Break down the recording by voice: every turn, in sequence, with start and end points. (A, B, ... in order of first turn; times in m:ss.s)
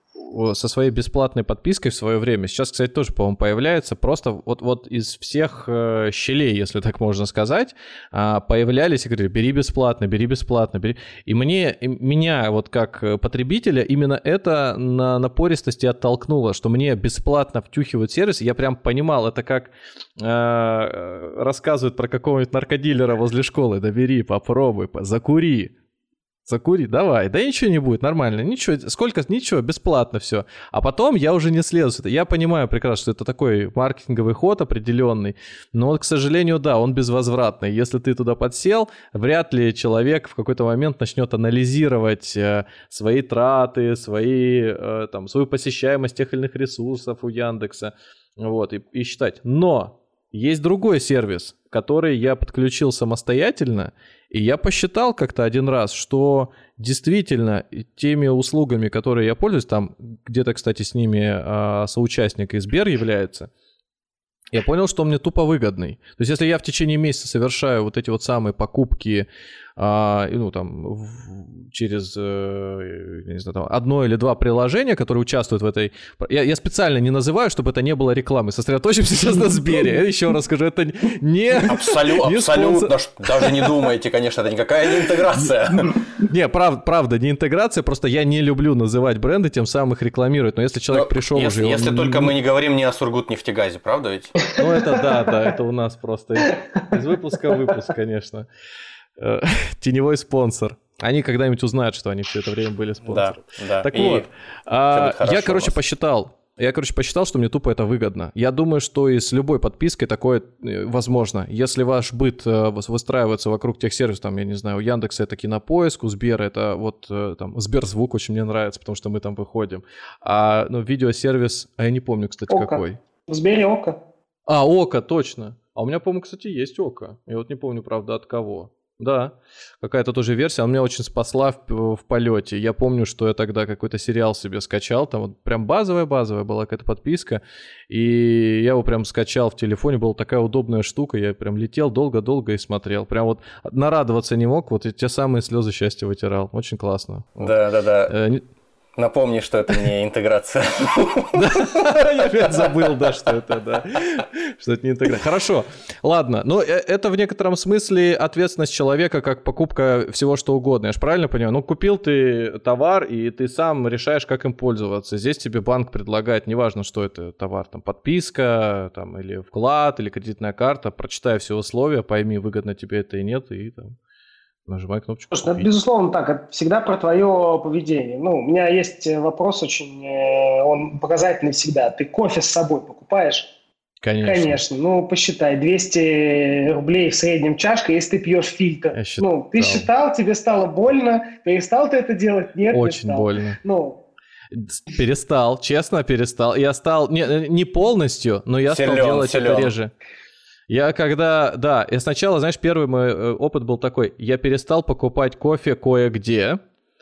0:00.2-0:25.7 A
0:26.5-1:03.5 A
1:04.5-1:23.7 A
1:21.5-1:26.0 B
1:26.2-1:32.3 A
1:30.9-1:34.4 B
1:34.6-1:38.5 A
1:39.2-2:03.0 A
1:43.0-1:44.2 B
1:44.9-1:45.7 B
2:02.5-2:04.0 C
2:04.5-2:27.5 A
2:27.4-2:28.2 B
2:28.1-2:28.4 A
2:29.0-2:33.3 B
2:31.3-2:53.9 A
2:54.7-2:55.7 A
2:55.3-3:03.5 C
3:04.0-3:04.6 A
3:04.2-3:14.0 C
3:08.9-3:09.9 A
3:12.7-3:13.6 A
3:14.5-3:19.9 A
3:18.7-3:19.7 B
3:20.7-3:26.6 A